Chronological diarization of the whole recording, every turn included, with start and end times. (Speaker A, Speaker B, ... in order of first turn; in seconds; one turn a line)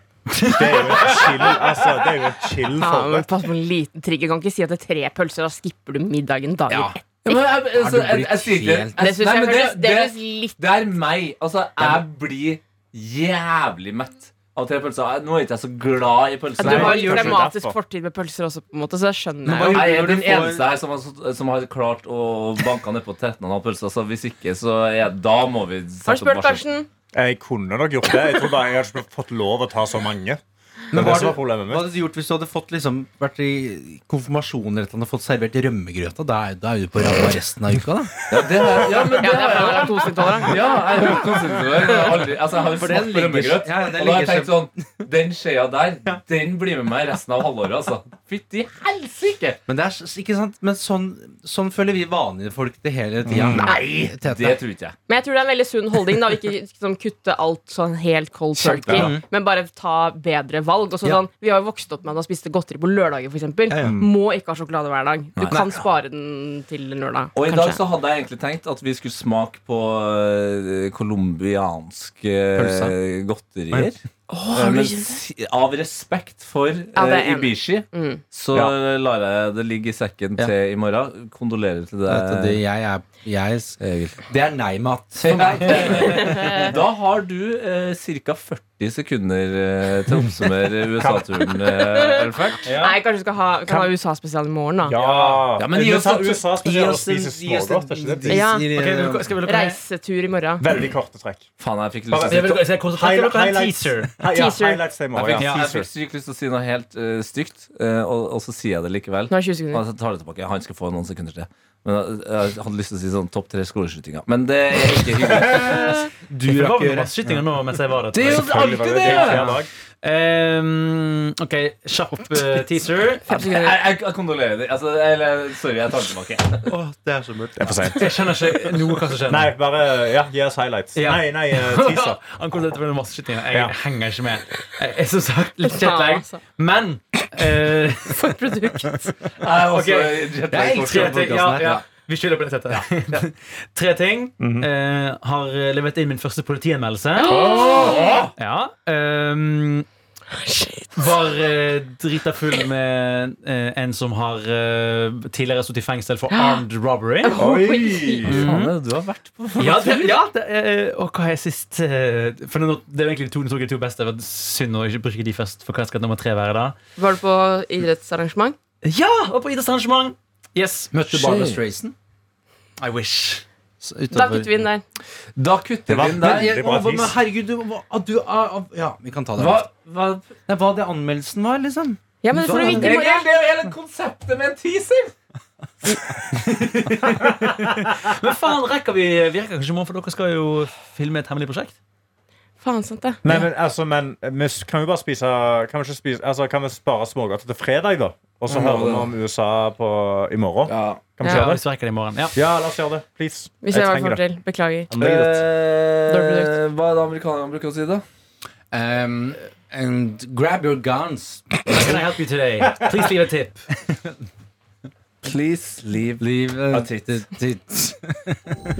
Speaker A: 0.3-1.3
Speaker B: 0.4-3.3
Speaker C: 2.8-7.4
Speaker D: 6.7-7.0
Speaker E: 7.2-17.3
Speaker D: 7.7-9.0
Speaker C: 9.0-10.5
Speaker C: 16.6-19.9
Speaker B: 16.6-17.8
Speaker D: 19.4-20.6
Speaker E: 19.7-26.6
Speaker C: 26.1-26.9
Speaker B: 27.1-31.9
Speaker D: 30.9-38.2
Speaker E: 38.3-49.6
Speaker C: 39.2-41.1
Speaker C: 41.7-42.1
Speaker D: 42.7-44.9
Speaker D: 49.7-54.6
Speaker B: 53.3-53.7
Speaker E: 53.5-55.0
Speaker C: 55.1-67.8
Speaker D: 58.6-59.2
Speaker D: 63.7-64.0
Speaker B: 63.8-64.1
Speaker E: 65.3-65.6
Speaker D: 65.5-65.8
Speaker E: 67.3-74.0
Speaker D: 72.5-72.9
Speaker C: 74.3-75.2
Speaker E: 74.5-82.6
Speaker C: 76.9-78.2
Speaker D: 82.1-86.0
Speaker E: 83.8-84.2
Speaker E: 85.2-92.7
Speaker A: 85.8-86.3
Speaker C: 85.8-86.7
Speaker B: 91.0-91.5
Speaker C: 91.5-94.9
Speaker A: 92.7-93.0
Speaker B: 93.7-93.9
Speaker B: 94.8-98.4
Speaker A: 95.0-95.5
Speaker E: 95.5-96.5
Speaker D: 96.6-99.3
Speaker C: 98.3-98.7
Speaker A: 98.6-99.8
Speaker C: 99.4-100.6
Speaker B: 100.6-101.5
Speaker E: 101.6-102.6
Speaker B: 102.1-105.9
Speaker A: 102.3-104.2
Speaker C: 104.3-104.8
Speaker E: 105.1-116.1
Speaker A: 105.3-105.7
Speaker C: 109.3-109.8
Speaker D: 116.3-117.1
Speaker A: 116.5-123.5
Speaker E: 118.1-119.5
Speaker B: 118.2-119.7
Speaker C: 123.3-123.8
Speaker E: 123.3-126.6
Speaker D: 126.7-128.0
Speaker B: 127.6-132.2
Speaker A: 127.9-129.5
Speaker A: 130.9-138.4
Speaker C: 135.6-136.4
Speaker C: 138.1-139.1
Speaker E: 139.4-141.6
Speaker A: 139.5-147.8
Speaker D: 140.5-141.8
Speaker B: 144.4-144.7
Speaker C: 147.2-148.1
Speaker B: 147.3-148.0
Speaker E: 147.4-148.3
Speaker A: 148.4-149.8
Speaker C: 150.3-151.1
Speaker A: 150.9-157.4
Speaker C: 156.3-156.6
Speaker C: 157.2-158.4
Speaker B: 157.3-158.5
Speaker D: 158.3-158.7
Speaker E: 158.3-160.2
Speaker A: 159.6-166.8
Speaker C: 166.9-168.6
Speaker A: 168.8-170.9
Speaker D: 170.9-171.9
Speaker E: 171.1-171.6
Speaker A: 172.8-173.4
Speaker D: 173.8-174.5
Speaker C: 174.1-174.8
Speaker E: 175.3-176.6
Speaker B: 175.9-177.2
Speaker D: 176.2-179.7
Speaker E: 179.4-180.3
Speaker D: 180.5-182.0
Speaker C: 182.2-183.2
Speaker A: 182.3-182.9
Speaker E: 182.6-185.1
Speaker A: 186.3-191.7
Speaker C: 192.6-193.2
Speaker B: 193.2-201.7
Speaker E: 198.5-199.1
Speaker E: 200.7-201.0
Speaker A: 201.2-202.4
Speaker B: 202.3-204.2
Speaker C: 203.6-204.9
Speaker B: 204.9-205.4
Speaker E: 205.0-208.0
Speaker C: 206.1-206.5
Speaker D: 208.7-211.9
Speaker A: 211.7-213.7
Speaker E: 215.2-217.2
Speaker D: 216.2-218.6